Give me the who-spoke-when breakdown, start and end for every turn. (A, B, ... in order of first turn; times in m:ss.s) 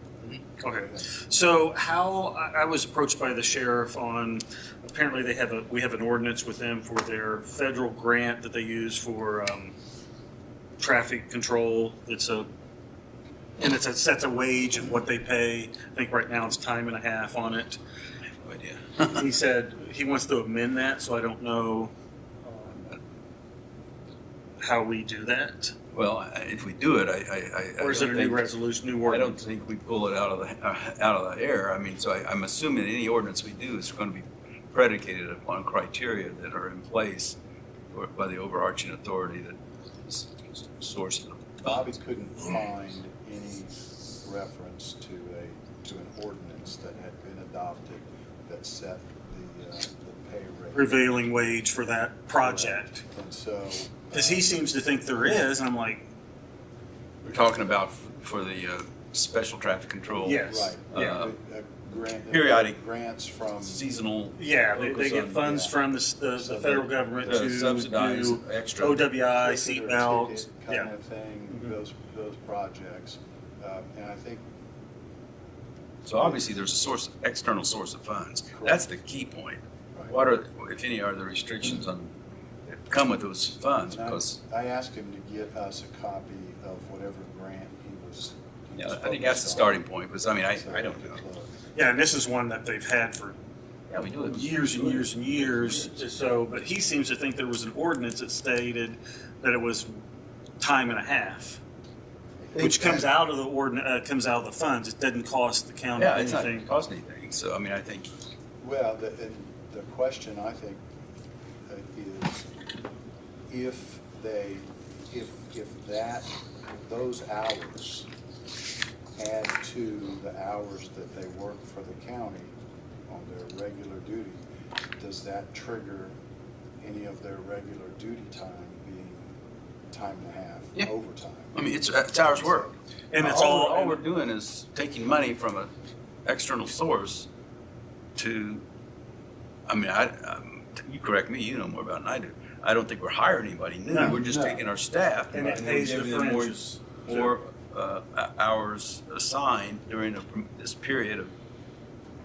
0:00.3-0:09.8 A
0:00.7-0:01.1 B
0:10.8-0:12.5 A
0:13.6-0:17.8 A
0:18.4-0:19.2 C
0:19.1-0:21.9 A
0:22.5-0:22.8 A
0:24.6-0:25.7 A
0:25.9-0:28.4 C
0:27.8-0:29.4 A
0:29.1-0:37.4 C
0:37.9-0:41.9 C
0:41.6-0:51.0 B
0:50.7-0:53.0 A
0:52.4-0:54.5 B
0:54.1-0:56.0 A
0:57.3-1:01.3 C
1:00.2-1:01.1 A
1:00.4-1:03.8 B
1:02.3-1:02.8 C
1:03.6-1:05.5 C
1:04.4-1:10.9 A
1:05.4-1:05.8 B
1:06.4-1:06.9 B
1:07.2-1:09.0 C
1:09.3-1:14.5 B
1:11.5-1:11.8 A
1:16.0-1:22.1 C
1:18.5-1:18.9 B
1:22.7-1:24.4 C
1:23.8-1:29.8 B
1:28.8-1:31.2 C
1:30.5-1:31.5 B
1:31.8-1:33.4 A
1:33.9-1:36.0 C
1:34.2-1:40.0 A
1:40.6-1:41.6 A
1:42.5-1:43.1 C
1:42.6-1:46.7 A
1:46.0-1:48.1 C
1:48.6-1:50.8 B
1:51.7-1:52.5 B
1:53.5-1:58.1 B
1:59.2-2:02.6 B
2:03.1-2:04.4 B
2:05.0-2:06.2 B
2:06.8-2:09.3 B
2:09.9-2:12.8 B
2:11.5-2:15.7 C
2:13.1-2:14.0 A
2:16.2-2:17.3 C
2:18.2-2:18.6 C
2:19.7-2:31.3 C
2:23.9-2:24.2 A
2:24.0-2:24.7 B
2:25.3-2:27.3 A
2:25.4-2:25.9 B